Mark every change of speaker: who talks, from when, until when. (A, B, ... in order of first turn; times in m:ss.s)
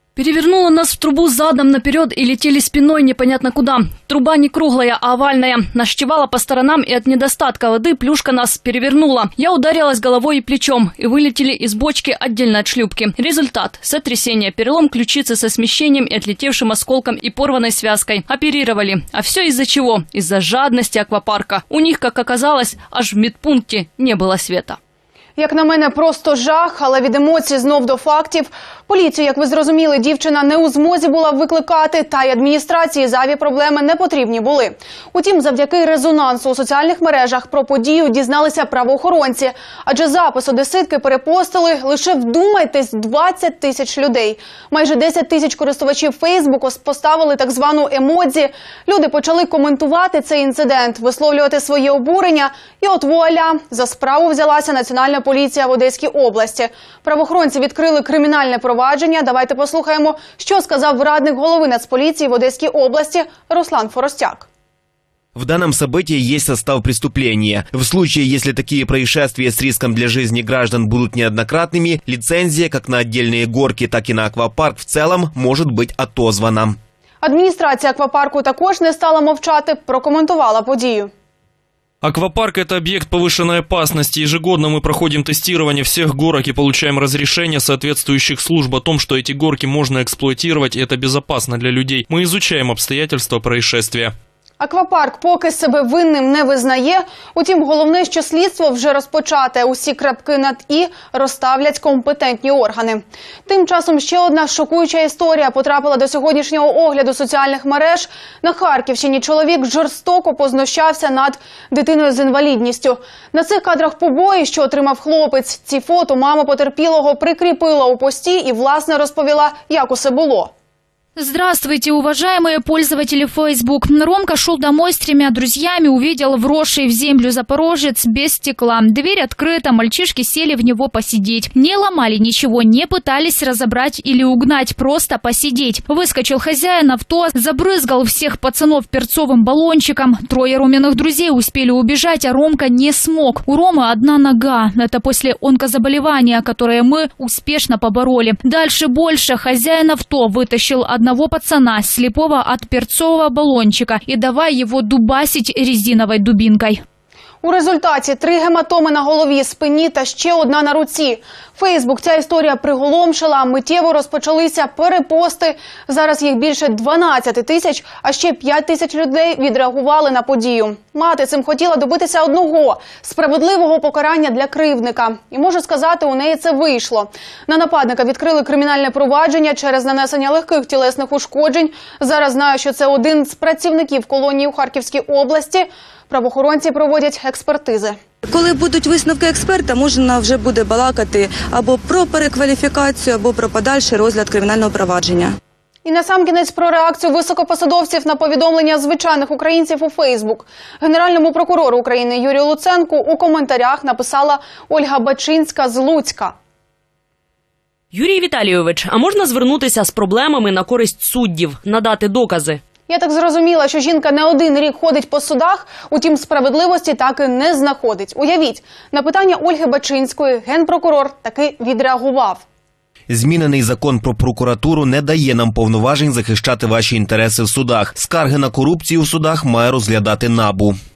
0:00.2-0:24.8 A
0:25.4-1:04.5 B
1:05.4-1:16.8 C
1:17.2-1:21.1 B
1:22.0-1:34.1 D
1:34.6-2:00.5 B
2:01.2-2:36.8 E
2:37.4-3:08.0 B
3:08.3-3:15.4 F
3:15.8-3:26.4 B
3:27.9-3:32.6 G
3:32.9-3:42.4 B
3:43.1-3:50.8 C